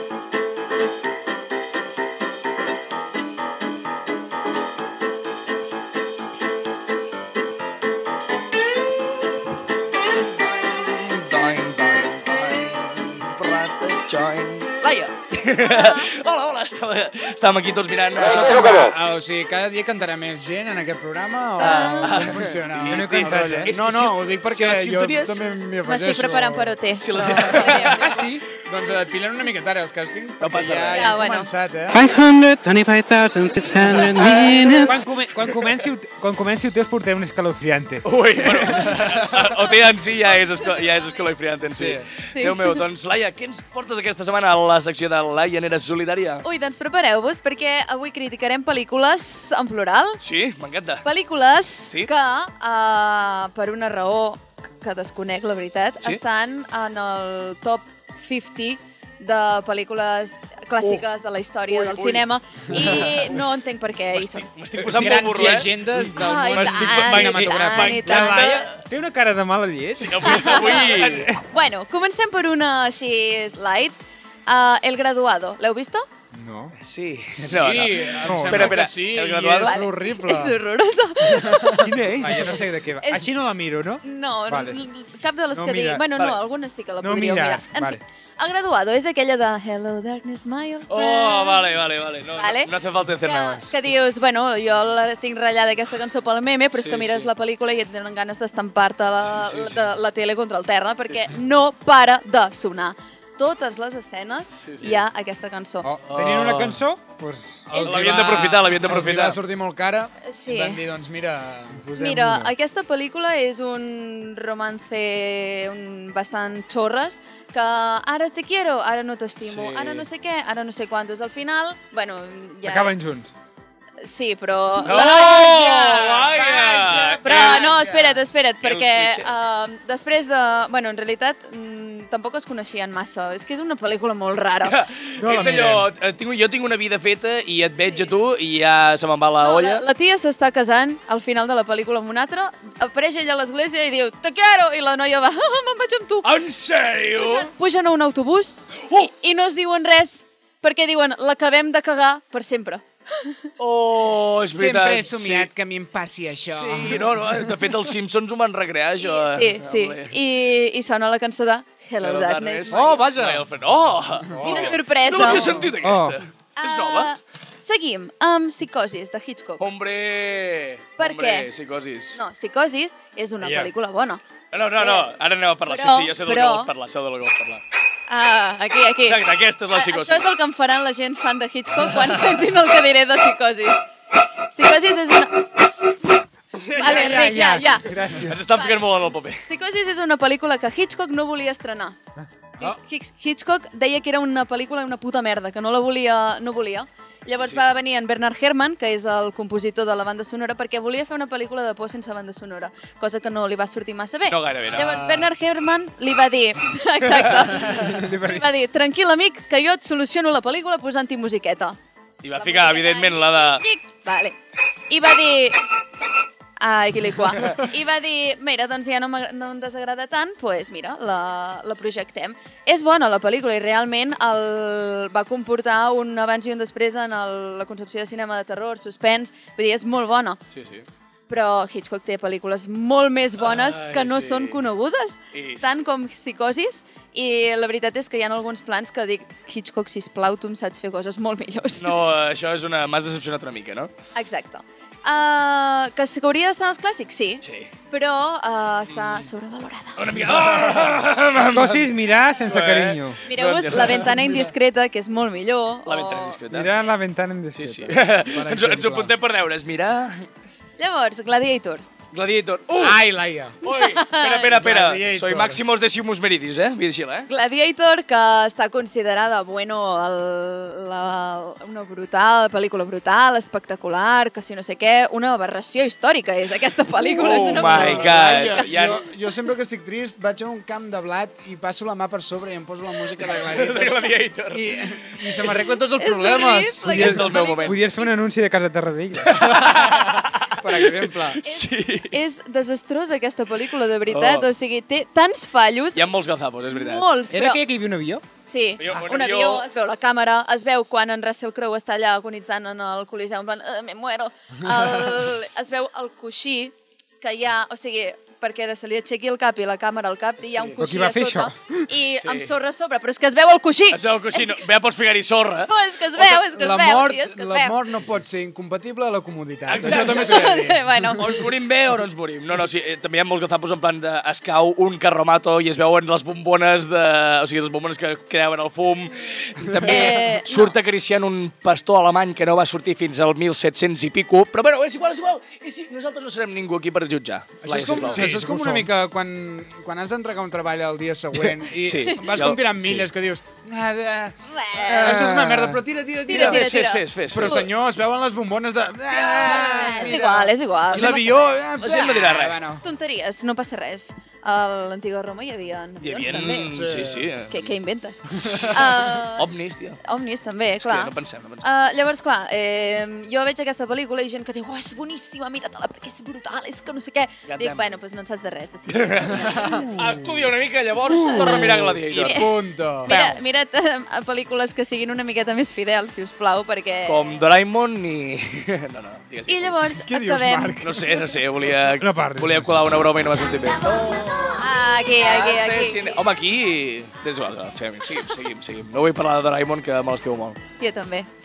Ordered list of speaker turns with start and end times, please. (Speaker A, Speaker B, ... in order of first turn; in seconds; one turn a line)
Speaker A: 10.4-18.9
Speaker B: 15.6-16.1
Speaker C: 18.2-27.8
Speaker B: 21.6-22.4
Speaker A: 21.6-25.5
Speaker D: 22.9-23.7
Speaker B: 25.8-28.3
Speaker A: 26.9-28.1
Speaker D: 27.9-28.4
Speaker C: 28.6-32.0
Speaker A: 30.4-31.1
Speaker B: 30.9-31.5
Speaker E: 31.9-35.0
Speaker C: 33.9-34.5
Speaker A: 33.9-34.9
Speaker D: 34.8-38.0
Speaker A: 38.0-46.4
Speaker C: 38.8-39.2
Speaker B: 40.2-41.3
Speaker C: 41.7-42.0
Speaker B: 42.3-42.8
Speaker B: 46.4-50.2
Speaker A: 50.2-51.0
Speaker B: 51.0-64.5
Speaker A: 61.7-63.1
Speaker A: 64.1-65.7
Speaker C: 64.8-68.3
Speaker D: 65.0-65.6
Speaker B: 66.0-68.6
Speaker A: 66.5-68.8
Speaker D: 68.0-71.1
Speaker A: 69.9-71.4
Speaker B: 70.2-76.1
Speaker D: 76.3-76.7
Speaker A: 76.8-79.8
Speaker C: 77.4-80.6
Speaker D: 78.3-78.8
Speaker B: 79.6-81.8
Speaker C: 81.2-82.6
Speaker D: 81.8-84.8
Speaker B: 83.0-83.3
Speaker B: 84.0-91.7
Speaker D: 85.5-86.0
Speaker D: 87.0-88.0
Speaker A: 90.9-93.7
Speaker B: 92.3-105.9
Speaker A: 96.8-97.3
Speaker A: 99.3-99.8
Speaker A: 104.5-105.0
Speaker D: 105.8-107.7
Speaker A: 106.1-106.8
Speaker C: 107.7-111.8
Speaker B: 107.7-108.0
Speaker A: 107.8-109.4
Speaker B: 110.2-110.8
Speaker D: 111.8-112.5
Speaker B: 111.9-123.0
Speaker A: 119.4-120.1
Speaker D: 122.6-123.3
Speaker B: 124.0-134.8
Speaker A: 124.8-127.7
Speaker C: 125.3-128.2
Speaker A: 128.6-129.3
Speaker A: 134.6-139.8
Speaker D: 135.2-135.8
Speaker C: 135.3-135.8
Speaker B: 139.4-146.3
Speaker A: 146.2-147.5
Speaker B: 147.1-153.5
Speaker A: 148.8-149.1
Speaker A: 153.6-155.5
Speaker C: 154.5-157.5
Speaker A: 156.4-160.1
Speaker B: 159.0-163.0
Speaker A: 162.0-167.1
Speaker C: 162.7-163.4
Speaker D: 164.3-166.2
Speaker B: 164.4-165.7
Speaker B: 166.6-169.6
Speaker A: 169.6-172.2
Speaker B: 171.0-171.5
Speaker B: 172.1-174.2
Speaker D: 173.4-173.7
Speaker A: 174.5-177.6
Speaker B: 174.8-175.1
Speaker B: 175.7-176.7
Speaker B: 178.1-183.8
Speaker A: 179.0-180.4
Speaker B: 184.5-185.5
Speaker A: 186.5-187.4
Speaker B: 186.8-192.0
Speaker D: 186.8-188.4
Speaker A: 188.2-189.4
Speaker B: 192.6-211.8
Speaker A: 204.3-204.9
Speaker C: 204.7-205.3
Speaker D: 207.8-208.4
Speaker A: 212.2-213.6
Speaker B: 212.3-214.4
Speaker B: 214.9-215.6
Speaker B: 216.6-230.4
Speaker A: 230.5-230.8
Speaker B: 231.3-242.0
Speaker A: 233.4-234.6
Speaker A: 235.3-235.8
Speaker A: 241.8-243.9
Speaker B: 244.1-250.3
Speaker A: 247.4-247.7
Speaker A: 248.9-249.2
Speaker A: 249.9-251.9
Speaker D: 251.4-253.2
Speaker A: 252.4-254.4
Speaker B: 253.2-256.9
Speaker C: 254.0-254.5
Speaker A: 255.8-256.7
Speaker D: 256.5-258.0
Speaker A: 257.5-260.3
Speaker C: 258.3-259.1
Speaker B: 260.8-261.8
Speaker A: 262.1-263.0
Speaker C: 262.8-263.6
Speaker A: 263.6-267.3
Speaker B: 263.6-264.6
Speaker C: 264.5-265.6
Speaker B: 267.3-278.7
Speaker A: 277.1-279.0
Speaker C: 277.5-286.9
Speaker A: 283.2-285.6
Speaker B: 285.9-288.1
Speaker D: 286.9-289.6
Speaker A: 286.9-287.8
Speaker A: 289.2-292.2
Speaker C: 289.6-291.4
Speaker B: 291.4-296.1
Speaker A: 294.1-294.5
Speaker A: 295.9-297.1
Speaker B: 296.7-297.6
Speaker D: 297.3-298.2
Speaker B: 298.4-314.6
Speaker A: 298.8-299.6
Speaker A: 310.4-310.8
Speaker D: 310.8-311.7
Speaker A: 312.2-312.5
Speaker A: 313.9-315.7
Speaker B: 315.6-317.8
Speaker C: 316.4-321.0
Speaker A: 319.7-320.5
Speaker B: 319.8-321.4
Speaker A: 321.1-338.2
Speaker C: 329.7-329.9
Speaker B: 329.9-330.7
Speaker C: 337.6-352.8
Speaker D: 338.1-338.9
Speaker A: 341.8-343.1
Speaker B: 344.5-345.3
Speaker A: 345.0-345.5
Speaker D: 345.3-345.7
Speaker B: 346.2-347.7
Speaker A: 346.3-347.6
Speaker B: 349.1-351.5
Speaker A: 351.8-352.6
Speaker B: 352.8-356.8
Speaker A: 356.0-357.7
Speaker C: 356.7-357.3
Speaker B: 357.5-370.0
Speaker C: 358.4-358.7
Speaker A: 359.3-360.0
Speaker A: 360.8-361.6
Speaker A: 367.5-367.9
Speaker A: 368.9-372.5
Speaker C: 369.4-369.9
Speaker B: 371.1-377.4
Speaker C: 372.1-373.1
Speaker A: 373.1-373.4
Speaker A: 377.1-379.9
Speaker B: 379.5-380.9
Speaker C: 380.0-381.0
Speaker A: 380.8-384.6
Speaker D: 382.0-382.7
Speaker B: 383.8-386.2
Speaker A: 385.2-390.6
Speaker B: 390.8-391.3